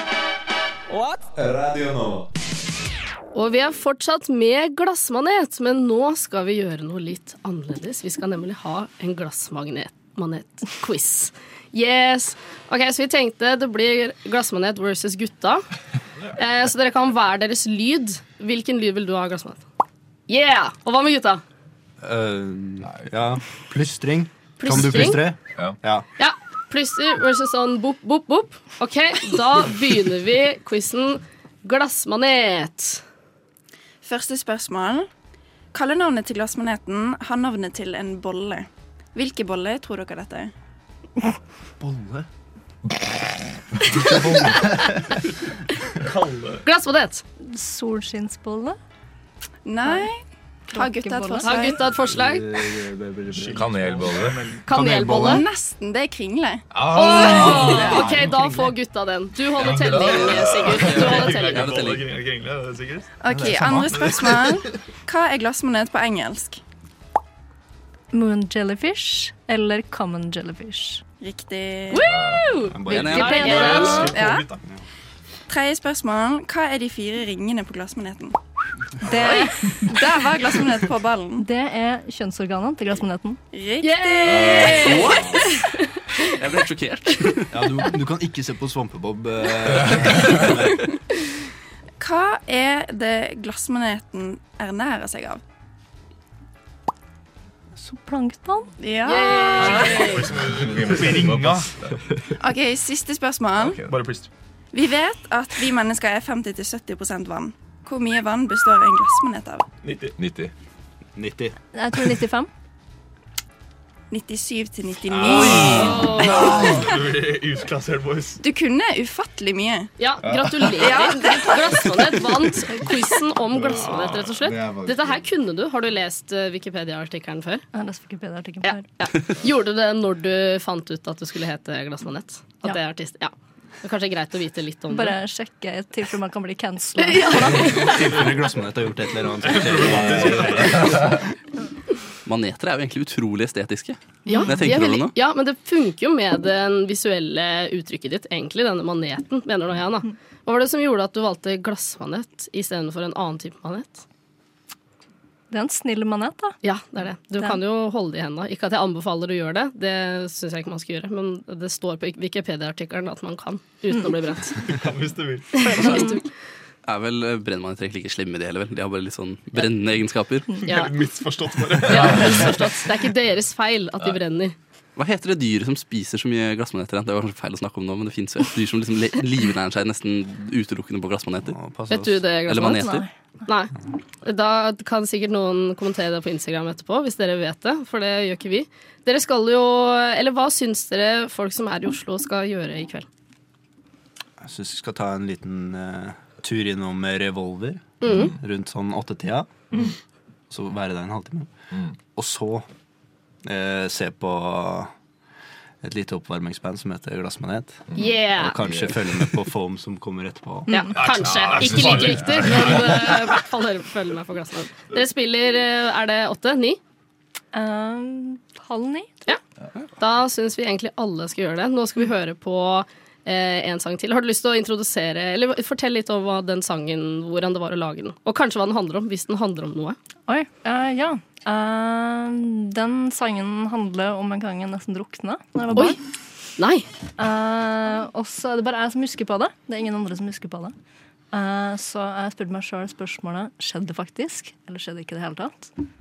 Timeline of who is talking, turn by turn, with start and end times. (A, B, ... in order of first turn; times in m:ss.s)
0:01.3-0:02.3 A
0:03.3-0:15.6 B
0:16.4-0:19.6 B
0:20.3-0:21.4 B
0:22.0-0:26.1 C
0:24.6-0:25.2 B
0:26.2-0:33.0 B
0:34.0-0:35.1 D
0:35.7-0:40.5 D
0:41.8-0:42.3 C
0:43.9-0:44.6 B
0:44.0-0:45.2 C
0:46.0-0:46.7 E
0:46.7-0:47.2 B
0:47.4-0:48.8 F
0:49.6-0:50.2 D
0:50.7-0:51.8 F
0:50.7-0:51.8 D
0:51.4-0:52.5 B
0:52.0-0:54.1 C
0:53.3-0:54.7 E
0:53.5-0:54.5 A
0:54.7-0:55.4 B
0:54.7-0:55.4 C
0:55.1-0:57.7 D
0:56.7-0:58.2 A
0:56.9-1:01.7 B
0:57.1-0:58.5 C
0:59.7-1:00.2 A
1:00.2-1:03.1 E
1:00.8-1:02.0 G
1:03.2-1:06.6 D
1:03.4-1:04.1 C
1:08.1-1:11.0 F
1:11.2-1:12.1 D
1:11.9-1:14.1 B
1:12.2-1:12.6 A
1:12.7-1:13.3 C
1:12.9-1:13.9 G
1:13.0-1:14.2 F
1:13.3-1:14.6 E
1:14.1-1:14.5 D
1:15.5-1:18.4 D
1:19.0-1:19.9 F
1:19.1-1:21.5 D
1:21.4-1:23.4 F
1:23.5-1:25.4 D
1:23.8-1:26.2 B
1:24.3-1:25.0 A
1:24.8-1:25.4 G
1:26.3-1:27.5 G
1:27.5-1:30.8 C
1:32.0-1:35.4 D
1:37.8-1:38.7 F
1:38.8-1:40.2 D
1:39.1-1:40.3 B
1:39.6-1:41.7 E
1:40.3-1:41.6 A
1:42.4-1:43.8 D
1:43.6-1:44.0 A
1:43.9-1:44.3 E
1:44.7-1:49.7 D
1:49.8-1:50.2 E
1:50.2-1:50.5 A
1:51.2-1:51.6 C
1:51.7-1:52.5 F
1:54.1-1:56.9 D
1:55.2-1:56.0 G
1:55.4-1:58.4 E
1:55.7-1:56.5 B
1:58.4-1:59.9 D
2:00.0-2:07.6 B
2:00.7-2:02.5 D
2:04.5-2:05.1 C
2:07.7-2:08.9 F
2:08.6-2:15.2 B
2:14.9-2:17.9 F
2:17.0-2:18.2 B
2:17.6-2:21.2 C
2:19.5-2:21.2 E
2:22.3-2:25.1 G
2:24.3-2:34.0 B
2:35.5-2:36.6 F
2:36.6-2:44.6 B
2:44.6-2:46.0 E
2:45.6-2:46.2 B
2:46.9-2:50.5 G
2:50.6-2:50.9 B
2:50.6-2:52.7 E
2:51.9-2:54.6 B
2:55.0-3:01.6 G
3:01.5-3:02.2 C
3:01.9-3:13.1 B
3:02.5-3:03.0 G
3:02.6-3:03.1 F
3:14.4-3:19.9 C
3:18.0-3:18.3 B
3:20.5-3:22.7 C
3:23.4-3:24.9 C
3:25.8-3:30.7 C
3:28.0-3:28.6 B
3:28.6-3:29.0 A
3:30.7-3:31.0 F
3:30.7-3:36.8 B
3:31.0-3:32.6 E
3:31.2-3:33.0 A
3:37.5-3:39.2 F
3:40.0-3:50.0 B
3:50.3-3:56.0 F
3:56.6-3:56.9 B
3:57.2-4:00.7 F
4:01.3-4:05.7 F